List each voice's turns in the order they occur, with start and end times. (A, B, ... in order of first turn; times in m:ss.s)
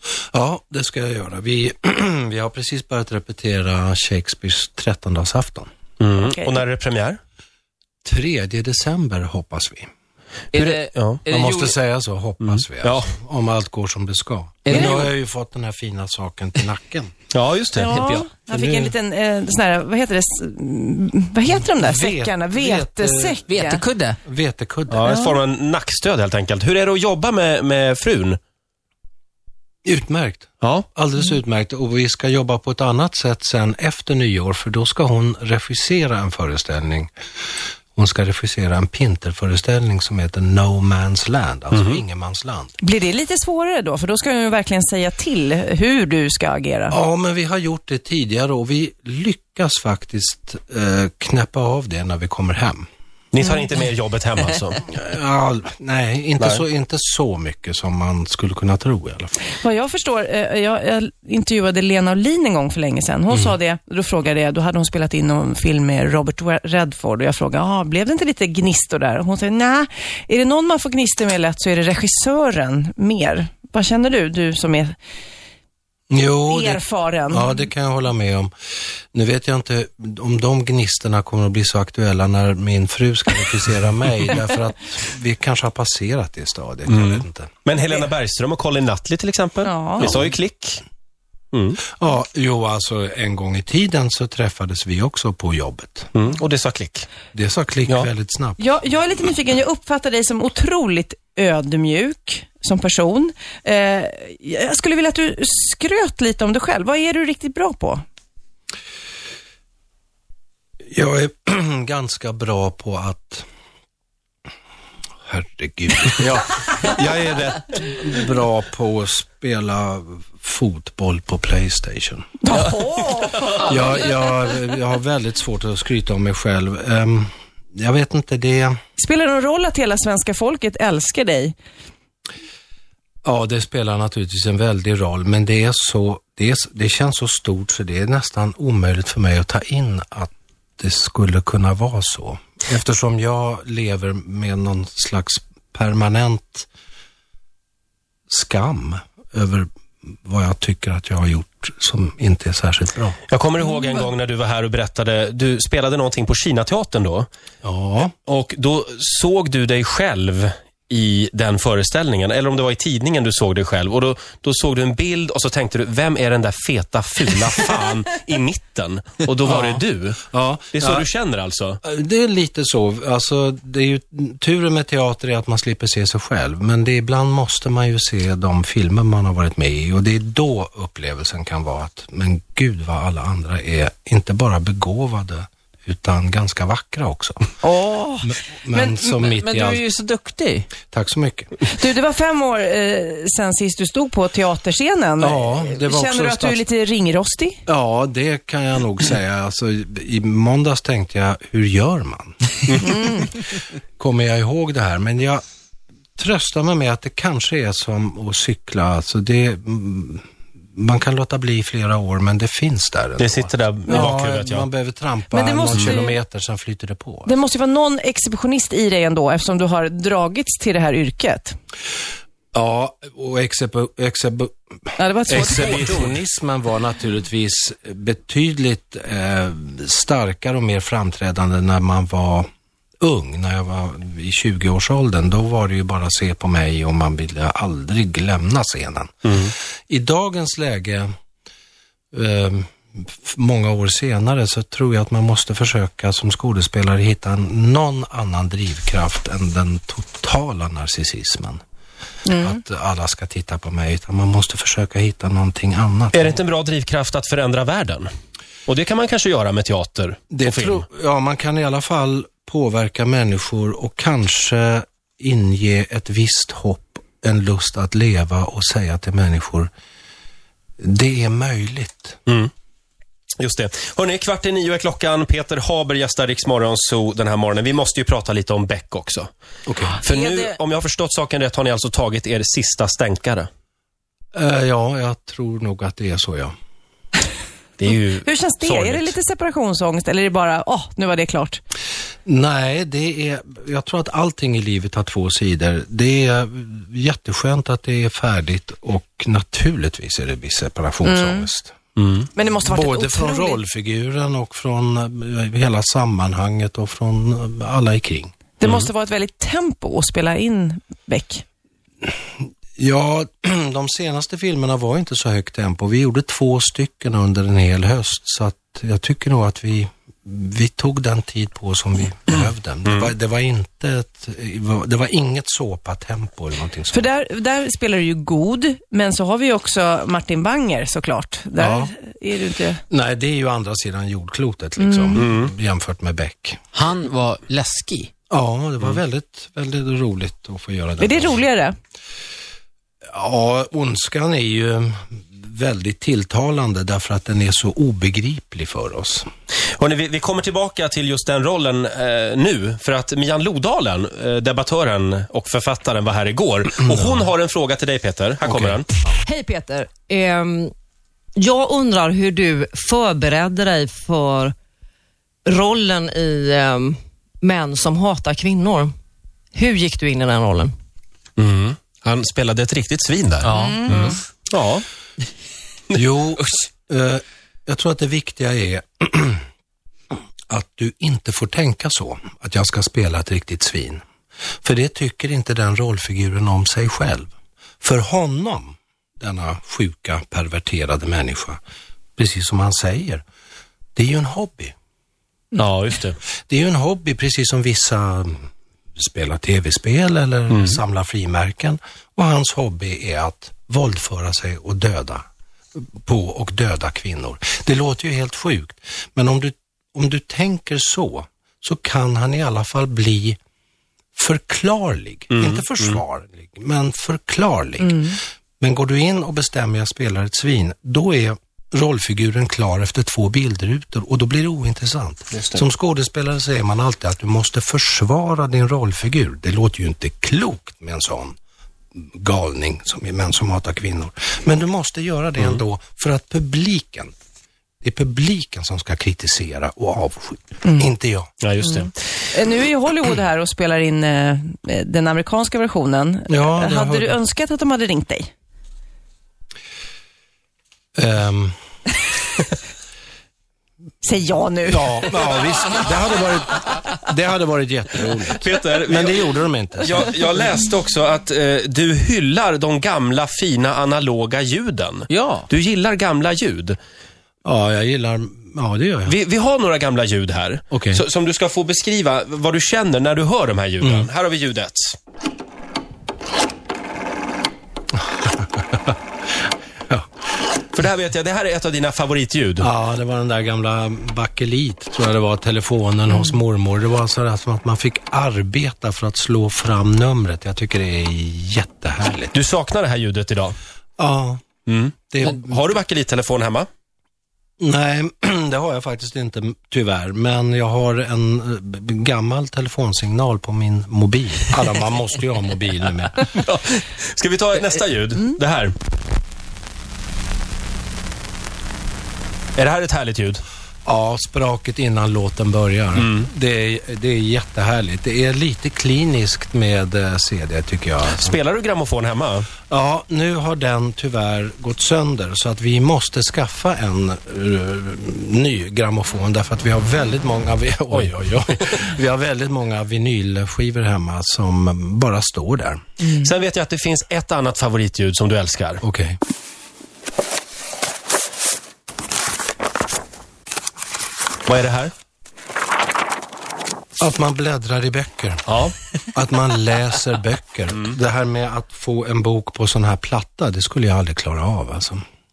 0:00.3-0:05.7 A
0:06.0-0:07.2 B
0:06.2-0:06.6 C
0:08.0-0:09.9 A
0:10.5-0:11.8 D
0:10.6-0:11.2 B
0:11.3-0:17.1 A
0:12.4-0:13.1 B
0:14.7-0:15.1 D
0:17.3-0:17.9 B
0:17.7-0:23.8 C
0:17.9-0:18.3 D
0:18.5-0:18.9 A
0:21.8-0:23.5 A
0:23.5-0:24.2 D
0:24.2-0:25.1 A
0:24.9-0:28.4 B
0:25.0-0:25.4 C
0:29.8-0:37.1 A
0:38.0-0:42.7 A
0:41.7-0:42.0 B
0:42.8-0:47.0 C
0:46.9-0:52.9 A
0:53.3-0:54.8 B
0:54.9-0:59.5 A
0:56.4-0:56.6 B
0:59.6-1:15.0 C
1:16.1-1:18.5 A
1:16.5-1:17.6 C
1:19.1-1:27.5 A
1:26.9-1:30.8 B
1:29.6-1:30.1 C
1:31.5-1:31.8 B
1:32.0-1:36.1 A
1:36.1-1:37.1 B
1:37.3-1:38.6 A
1:38.6-1:48.0 C
1:50.9-1:53.5 A
1:55.3-2:02.3 A
2:02.4-2:04.0 C
2:03.5-2:08.8 A
2:09.0-2:11.6 C
2:13.2-2:26.7 A
2:28.3-2:29.7 A
2:30.2-2:33.2 A
2:33.3-2:37.3 B
2:37.6-2:38.1 A
2:38.3-2:51.8 B
2:49.4-2:51.1 A
2:51.8-3:07.5 A
3:07.6-3:08.4 C
3:08.2-3:09.8 A
3:08.9-3:10.7 D
3:10.8-3:11.6 A
3:11.7-3:17.6 C
3:15.2-3:16.6 A
3:17.7-3:22.4 A
3:22.7-3:23.2 B
3:22.8-3:23.3 C
3:24.0-3:25.4 A
3:26.2-3:37.4 A
3:33.2-3:34.7 B
3:33.9-3:34.1 C
3:35.3-3:36.2 C
3:37.3-3:41.6 C
3:42.5-3:52.5 A
3:45.0-3:46.0 C
3:45.3-3:46.0 B
3:53.0-4:01.1 A
3:59.3-3:59.5 B
4:02.1-4:11.6 A
4:12.2-4:12.6 C
4:12.3-4:16.4 A
4:16.1-4:18.1 B
4:18.7-4:20.8 B
4:20.3-4:29.7 A
4:30.8-4:32.2 A
4:33.4-4:39.3 B
4:39.7-4:40.0 A
4:40.0-4:43.5 B
4:40.0-4:40.6 C
4:44.4-4:46.5 A
4:47.8-4:49.1 B
4:48.2-4:51.6 C
4:52.3-5:01.8 A
5:01.0-5:01.5 C
5:02.0-5:02.3 B
5:02.4-5:03.6 C
5:02.6-5:08.3 A
5:08.6-5:11.4 C
5:08.6-5:08.9 B
5:12.8-5:27.1 A
5:22.8-5:23.1 B
5:26.9-5:32.8 C
5:31.6-5:31.9 A
5:32.9-5:36.6 A
5:34.8-5:35.2 C
5:35.2-5:35.5 B
5:36.7-5:38.1 D
5:38.3-5:41.4 A
5:41.0-5:41.8 C
5:43.1-5:49.3 A
5:49.8-5:58.9 B
5:56.9-5:57.3 A
5:58.4-5:59.2 A
5:59.2-6:00.7 E
6:01.4-6:04.6 E
6:05.5-6:09.0 E
6:09.6-6:10.7 E
6:11.4-6:14.9 B
6:13.4-6:14.2 D
6:13.6-6:14.0 E
6:15.9-6:19.4 A
6:20.5-6:24.0 A
6:24.6-6:31.6 A
6:32.2-6:33.2 A
6:34.0-6:34.7 A
6:35.5-6:36.2 B
6:36.5-6:38.4 A
6:39.0-6:45.2 A
6:40.5-6:40.8 B
6:46.0-6:53.4 A
6:54.2-7:11.4 A
6:55.3-6:56.0 B
6:57.8-6:58.1 C
7:05.3-7:05.6 B
7:12.0-7:17.1 A
7:17.8-7:21.3 A
7:20.6-7:20.9 C
7:21.4-7:21.9 B
7:21.6-7:28.3 C
7:26.3-7:27.2 A
7:31.0-7:31.6 A
7:34.0-7:35.3 C
7:34.7-7:40.1 A
7:38.4-7:39.2 B
7:39.8-7:46.8 B
7:45.1-7:45.5 D
7:47.4-7:49.2 A
7:49.0-7:55.0 B
7:50.7-7:51.0 A
7:53.8-7:54.1 A
7:57.9-7:59.0 A
8:00.7-8:02.7 B
8:02.6-8:12.4 A
8:12.3-8:13.6 B
8:14.0-8:14.4 A
8:14.7-8:16.7 B
8:15.1-8:15.6 A
8:17.6-8:26.4 A
8:26.3-8:28.8 B
8:32.6-8:33.4 B
8:33.8-8:41.4 A
8:36.0-8:36.3 B
8:41.2-8:42.5 B
8:42.7-8:55.8 A
8:56.1-8:58.8 B
8:58.8-8:59.2 A
9:04.5-9:04.9 B
9:07.0-9:08.4 A
9:08.5-9:08.8 B
9:09.1-9:15.0 A